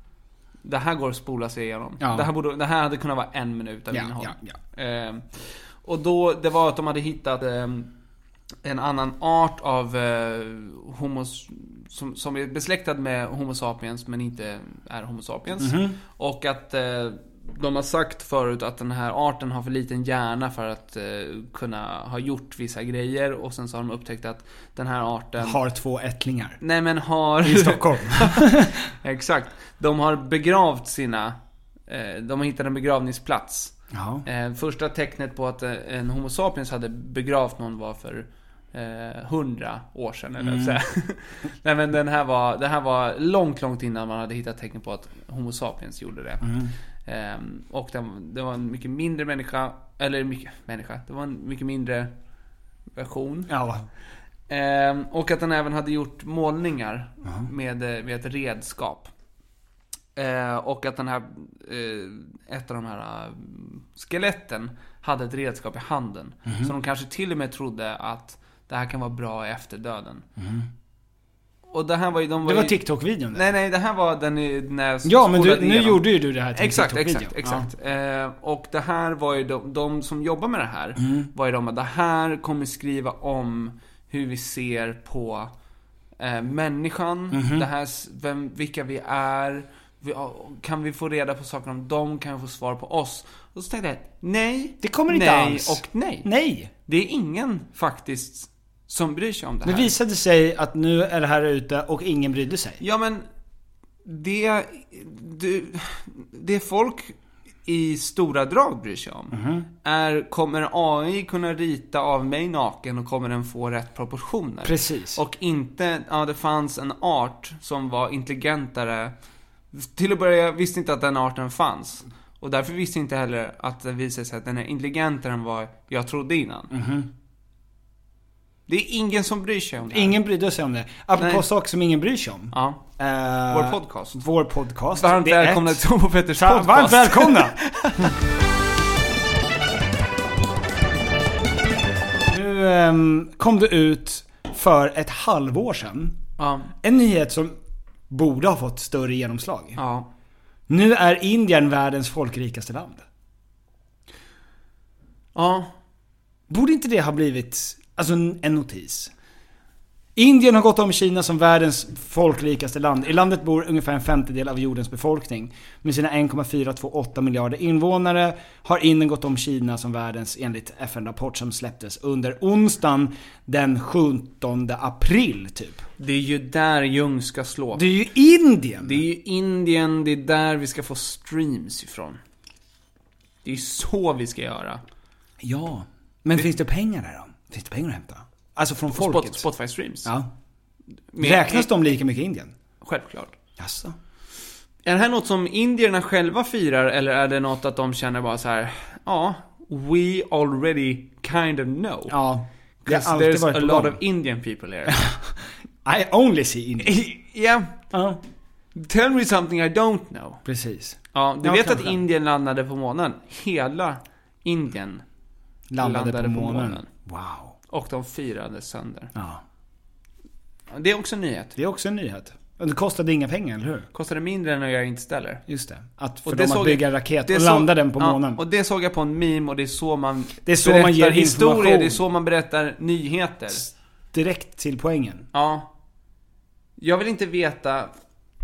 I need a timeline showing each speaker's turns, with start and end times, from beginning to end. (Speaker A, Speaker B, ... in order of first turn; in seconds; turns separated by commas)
Speaker A: 0.6-7.9, Speaker B: 2.0-2.3, Speaker B: 3.9-4.6, Speaker A: 8.6-25.6, Speaker B: 15.6-16.0, Speaker B: 25.4-26.6, Speaker A: 26.6-31.4, Speaker B: 27.4-28.8, Speaker A: 31.9-46.5, Speaker B: 33.9-34.2, Speaker B: 40.4-40.8, Speaker B: 46.4-46.7, Speaker A: 47.0-52.1, Speaker A: 52.9-53.5, Speaker B: 53.5-53.9, Speaker A: 54.5-59.1, Speaker B: 57.2-57.5, Speaker A: 60.1-70.2, Speaker B: 66.5-66.7, Speaker B: 70.4-70.7, Speaker A: 71.7-72.8, Speaker B: 72.4-73.5, Speaker A: 73.3-85.5, Speaker B: 75.0-77.7, Speaker B: 81.0-81.3, Speaker A: 86.2-96.3, Speaker B: 87.3-87.7, Speaker B: 94.8-96.7, Speaker A: 96.8-99.9, Speaker B: 99.6-102.8, Speaker A: 102.8-103.3, Speaker A: 104.0-119.1, Speaker B: 109.3-109.7, Speaker B: 114.6-115.2, Speaker A: 119.7-126.7, Speaker B: 126.7-127.1, Speaker A: 128.7-130.2, Speaker B: 129.9-138.1, Speaker A: 131.2-131.4, Speaker A: 132.5-132.8, Speaker A: 133.5-134.2, Speaker A: 134.9-138.1, Speaker B: 142.2-146.2, Speaker A: 146.4-146.7, Speaker B: 146.8-147.6, Speaker B: 148.1-149.8, Speaker A: 149.8-150.1, Speaker B: 150.7-153.0, Speaker A: 155.3-155.7, Speaker B: 156.5-159.1, Speaker B: 160.2-175.8, Speaker A: 176.0-177.8, Speaker B: 177.7-179.0, Speaker A: 178.8-182.2, Speaker A: 183.4-184.8, Speaker B: 185.4-189.4, Speaker A: 188.9-190.1, Speaker B: 190.0-190.3, Speaker A: 191.1-191.7, Speaker B: 191.2-192.5, Speaker A: 192.8-193.3, Speaker B: 193.6-193.9, Speaker A: 194.8-202.2, Speaker B: 202.1-204.0, Speaker A: 202.8-205.0, Speaker B: 204.9-207.1, Speaker A: 206.9-207.8, Speaker B: 207.9-208.2, Speaker A: 208.7-210.4, Speaker B: 210.4-212.0, Speaker A: 211.1-215.0, Speaker B: 215.7-217.5, Speaker A: 215.8-216.9, Speaker A: 217.7-219.1, Speaker B: 219.1-219.4, Speaker A: 220.7-221.6, Speaker B: 221.6-223.9, Speaker A: 223.9-225.4, Speaker B: 225.5-228.4, Speaker A: 226.2-233.7, Speaker B: 230.4-232.0, Speaker B: 234.1-235.2, Speaker A: 235.3-235.7, Speaker A: 236.8-237.9